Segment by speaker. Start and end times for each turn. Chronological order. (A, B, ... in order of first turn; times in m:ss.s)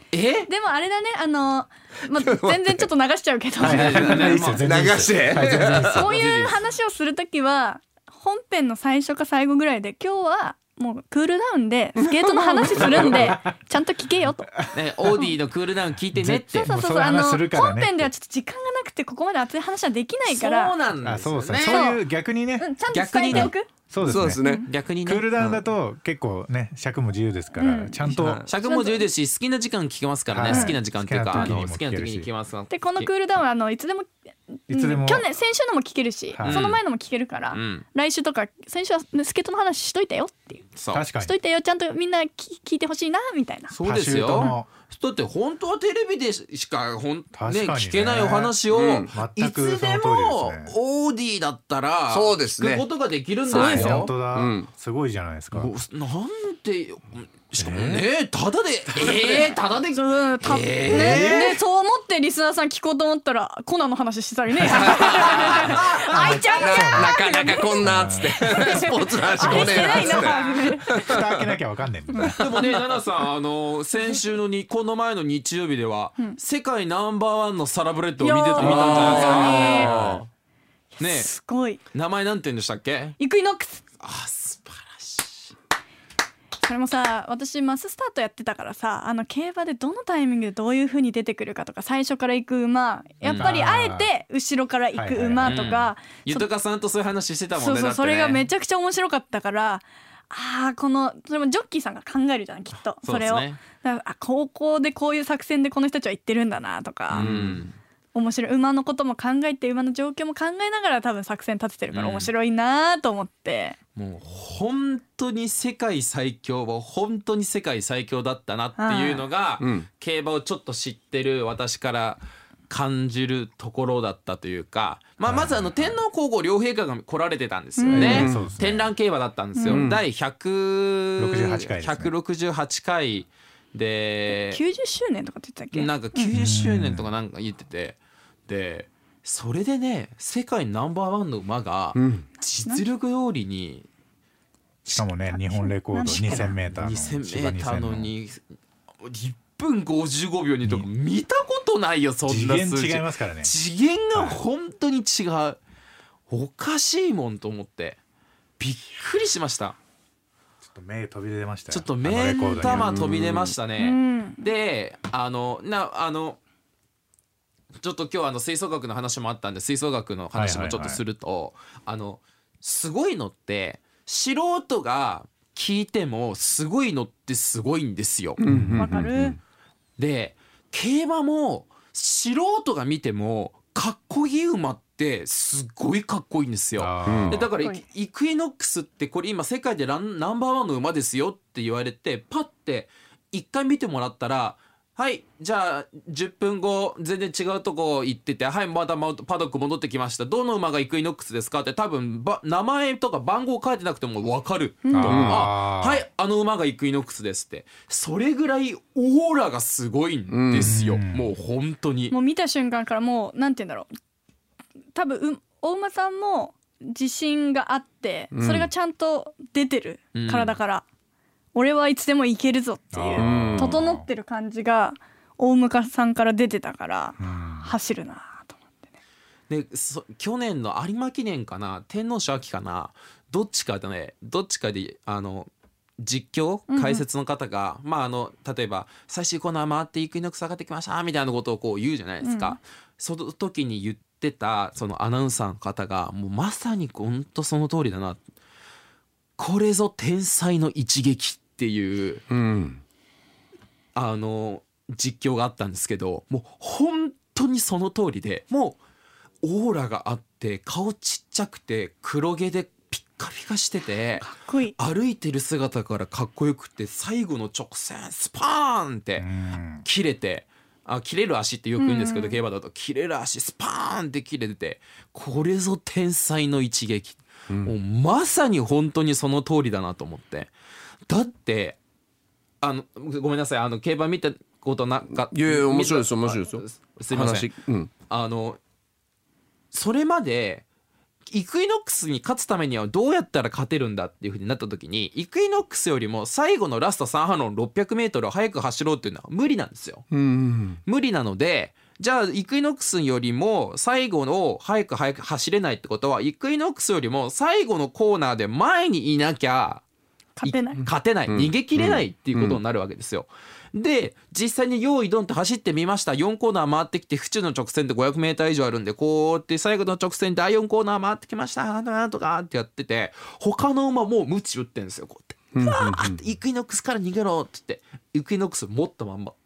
0:00.1-0:00.5 A
0:00.5-0:04.4 B
0:02.2-0:02.9 C
0:03.6-0:06.1 D
0:03.6-0:06.6 A
0:04.6-0:06.1 C
0:05.8-0:14.5 B
0:12.0-0:13.4 C
0:12.8-0:13.3 A
0:14.6-0:15.2 D
0:14.7-0:16.7 A
0:16.1-0:18.1 D
0:16.6-0:20.7 B
0:20.3-0:21.9 A
0:21.0-0:22.8 D
0:21.6-0:22.0 B
0:22.6-0:23.7 B
0:22.9-0:23.6 A
0:23.3-0:24.4 D
0:24.0-0:24.7 C
0:24.4-0:24.7 B
0:24.7-0:25.3 A
0:25.0-0:28.4 D
0:27.6-0:28.0 B
0:28.0-0:28.5 C
0:28.5-0:33.1 A
0:28.6-0:29.1 B
0:30.3-0:32.3 D
0:30.5-0:30.8 B
0:32.7-0:40.6 B
0:34.7-0:35.3 D
0:36.3-0:36.6 D
0:36.4-0:36.8 A
0:37.5-0:37.8 A
0:40.8-0:41.0 A
0:40.9-0:41.4 D
0:41.2-0:43.8 B
0:43.7-0:54.1 A
0:43.8-0:44.7 D
0:47.3-0:48.6 D
0:48.7-0:49.2 C
0:49.1-0:50.7 D
0:52.1-0:52.9 C
0:53.5-0:55.7 D
0:53.5-0:54.7 C
0:55.5-1:01.6 A
0:57.6-0:58.0 D
0:57.7-0:58.0 C
0:59.0-0:59.5 C
0:59.9-1:11.1 B
1:00.9-1:01.5 D
1:04.6-1:11.5 C
1:04.8-1:05.9 A
1:05.7-1:07.2 D
1:07.8-1:08.8 D
1:09.3-1:12.6 D
1:12.1-1:12.5 B
1:12.4-1:20.0 A
1:18.2-1:19.9 B
1:18.6-1:20.3 C
1:19.8-1:20.2 D
1:21.0-1:21.8 B
1:21.0-1:21.3 A
1:21.9-1:23.2 A
1:23.2-1:23.8 B
1:24.0-1:25.6 A
1:26.6-1:36.5 B
1:33.2-1:33.6 A
1:33.4-1:34.1 D
1:35.0-1:35.8 D
1:35.4-1:38.4 A
1:37.6-1:47.3 B
1:43.0-1:43.6 A
1:47.1-1:47.8 A
1:47.2-1:47.6 C
1:48.1-1:53.8 B
1:51.9-1:52.3 A
1:54.0-2:14.6 A
1:58.8-1:59.2 B
1:59.6-1:59.9 C
2:05.2-2:06.0 D
2:07.8-2:08.3 B
2:07.9-2:08.9 D
2:08.0-2:08.5 C
2:09.6-2:09.8 B
2:09.7-2:10.0 C
2:11.2-2:12.1 D
2:14.3-2:16.3 B
2:15.7-2:23.9 A
2:16.3-2:17.1 D
2:22.0-2:22.2 C
2:24.9-2:28.1 D
2:25.3-2:26.6 B
2:26.1-2:28.4 A
2:29.0-2:35.6 A
2:32.3-2:33.5 D
2:34.1-2:34.4 D
2:36.3-2:38.0 A
2:38.6-2:39.8 A
2:40.6-2:43.1 D
2:41.7-2:46.4 A
2:42.6-2:43.6 C
2:43.8-2:44.4 B
2:47.8-2:58.4 A
2:50.3-2:51.0 D
2:58.4-2:59.4 C
2:58.5-2:59.1 D
2:58.8-2:59.4 B
3:00.0-3:32.1 A
3:06.8-3:07.5 D
3:07.1-3:07.4 C
3:07.5-3:07.8 B
3:24.8-3:25.2 B
3:24.9-3:26.0 D
3:25.1-3:25.4 C
3:30.3-3:30.8 C
3:30.6-3:31.3 D
3:32.1-3:33.9 B
3:34.9-3:40.8 B
3:38.3-3:38.7 C
3:40.2-3:40.5 A
3:41.5-3:48.7 B
3:42.9-3:44.1 D
3:43.2-3:43.8 C
3:47.2-3:47.7 D
3:49.5-4:08.2 A
3:56.7-3:57.0 B
4:02.2-4:02.6 B
4:09.4-4:12.2 A
4:12.3-4:12.8 C
4:14.0-4:18.8 A
4:19.4-4:29.3 A
4:24.2-4:24.8 B
4:29.2-4:29.8 D
4:29.8-4:40.5 A
4:31.8-4:32.4 B
4:41.1-4:41.8 A
4:42.6-4:47.5 A
4:45.3-4:47.9 C
4:48.1-4:48.6 A
4:49.7-4:50.6 A
4:51.3-5:00.1 A
5:00.1-5:00.8 C
5:00.9-5:09.8 A
5:10.4-5:10.8 B
5:10.4-5:29.4 A
5:11.3-5:12.6 C
5:25.5-5:26.2 C